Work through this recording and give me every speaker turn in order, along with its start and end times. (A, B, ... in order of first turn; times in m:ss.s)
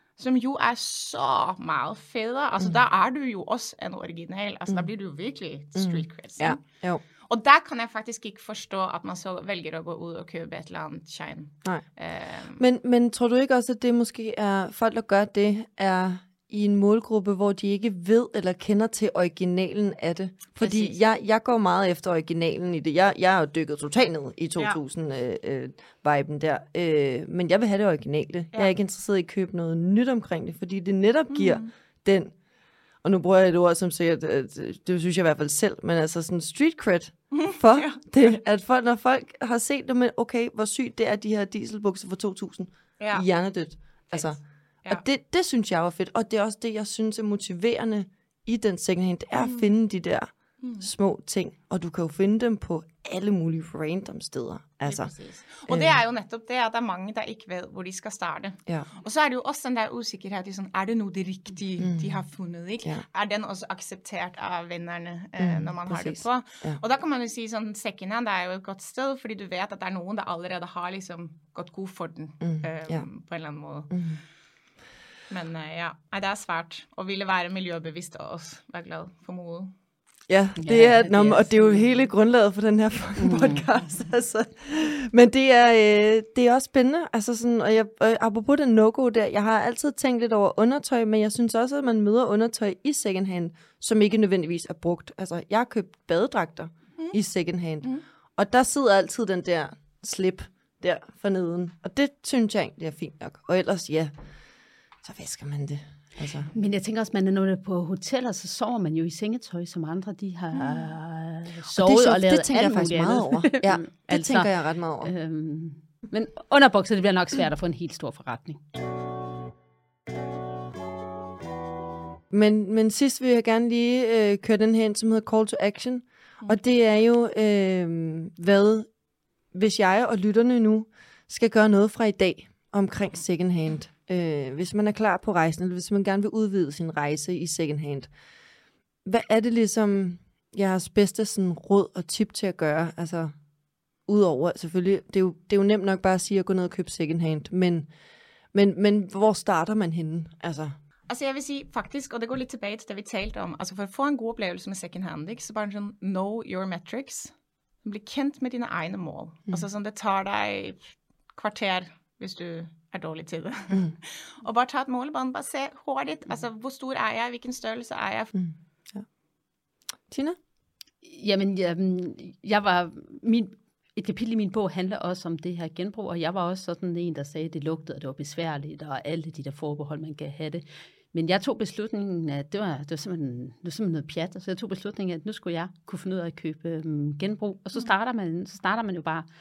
0:00.2-0:06.6 A
0:05.7-0:07.0 B
0:07.3-0:12.6 A
0:12.6-0:32.3 B
0:20.6-0:21.0 A
0:31.3-0:31.7 A
0:33.0-0:55.1 B
0:37.3-0:38.1 A
0:43.0-0:43.3 A
0:44.1-0:45.0 A
0:49.4-0:49.7 A
0:50.6-0:50.9 A
0:54.8-1:14.0 A
0:55.7-0:56.0 B
1:01.8-1:02.2 B
1:05.4-1:06.8 B
1:12.4-1:13.0 B
1:13.9-1:14.2 B
1:15.3-1:19.7 A
1:20.3-1:44.1 B
1:20.6-1:21.8 C
1:23.2-1:23.6 C
1:45.0-1:46.5 B
1:46.5-1:54.5 C
1:50.6-1:50.9 A
1:51.7-1:55.1 B
1:55.0-1:58.6 C
2:02.3-2:08.9 B
2:09.5-2:18.1 B
2:19.0-2:23.3 B
2:24.1-2:27.9 B
2:28.5-2:30.7 B
2:31.1-2:48.3 A
2:48.3-2:49.0 B
2:50.1-2:50.4 B
2:51.0-3:09.3 C